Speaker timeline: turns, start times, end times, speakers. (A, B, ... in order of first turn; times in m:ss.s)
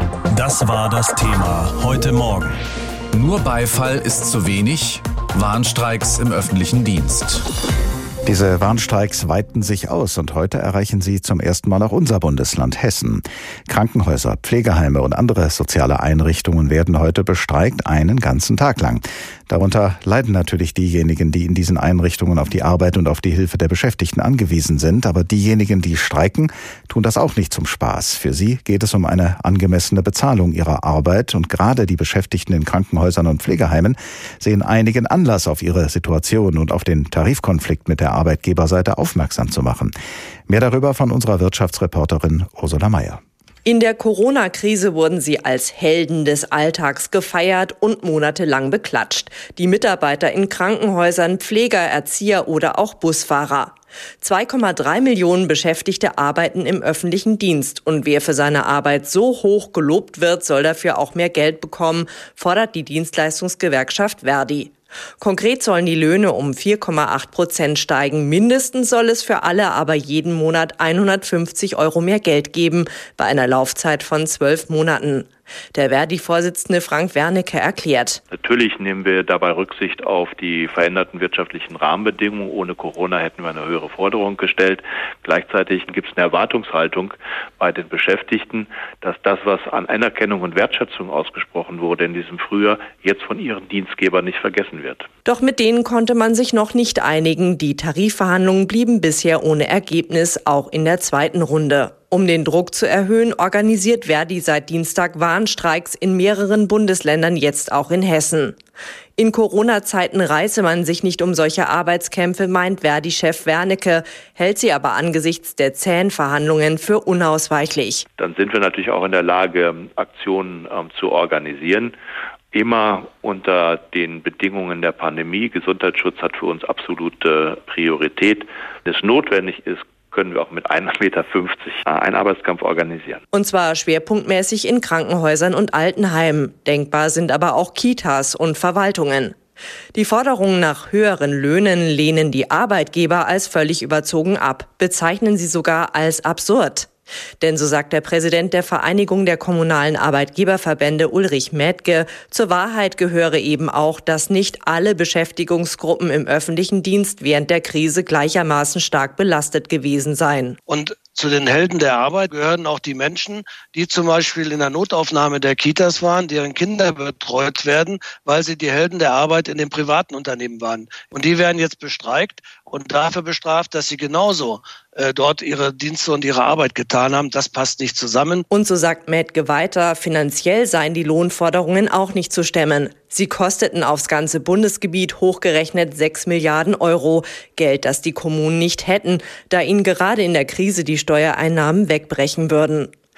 0:00.3-0:02.6 A
0:03.1-0:07.4 B
0:08.2-0:39.9 C
0:40.5-0:43.2 C
0:43.6-1:18.2 D
1:18.3-1:35.0 E
1:35.2-1:48.6 D
1:49.2-1:58.0 D
1:58.2-2:01.9 E
2:02.5-2:13.2 E
2:13.3-2:19.4 D
2:19.9-2:26.9 D
2:27.4-2:40.6 D
2:40.7-2:58.4 F
2:58.5-3:12.9 D